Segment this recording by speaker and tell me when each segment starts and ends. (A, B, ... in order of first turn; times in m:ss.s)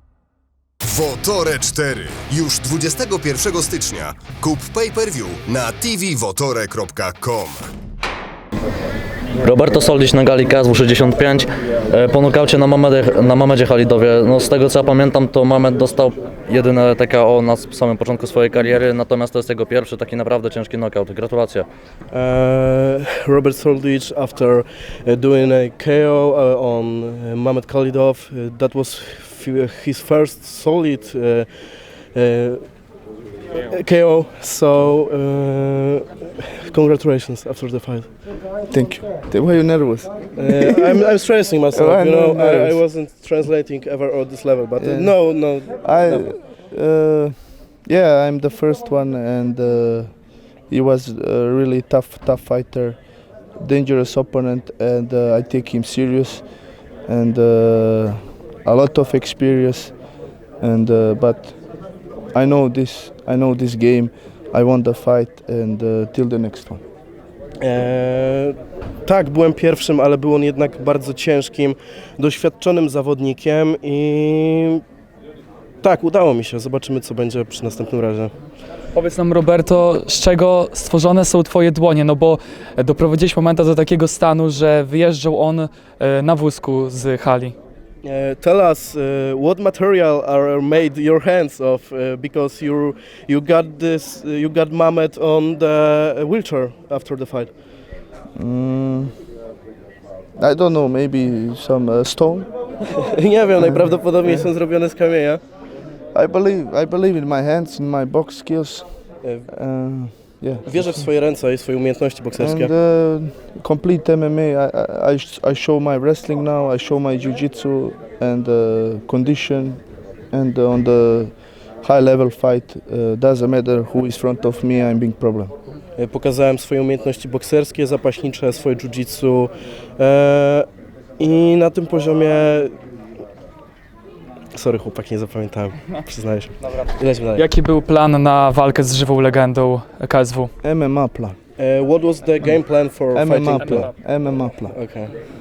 0:00.8-0:07.7 A
0:09.4-0:21.7 B
0:22.1-0:32.8 C
0:33.7-0:38.1 C
0:38.7-0:41.0 D
0:40.4-0:46.3 C
0:41.7-0:42.8 D
0:44.8-0:53.0 D
0:53.6-0:56.5 D
0:57.0-1:00.0 D
1:00.6-1:01.6 D
1:02.3-1:06.8 D
1:07.6-1:14.8 C
1:15.8-1:18.3 C
1:19.0-1:27.5 E
1:28.0-1:37.5 C
1:38.4-1:39.1 D
1:40.4-1:42.5 D
1:43.0-1:45.4 C
1:46.1-1:51.1 D
1:49.2-1:49.5 C
1:50.6-1:52.7 C
1:52.4-2:05.5 D
2:06.0-2:10.7 C
2:11.2-2:12.8 C
2:14.5-2:17.5 C
2:17.4-2:20.5 E
2:20.6-2:21.4 D
2:21.6-2:24.0 C
2:23.1-2:24.8 D
2:24.7-2:25.2 C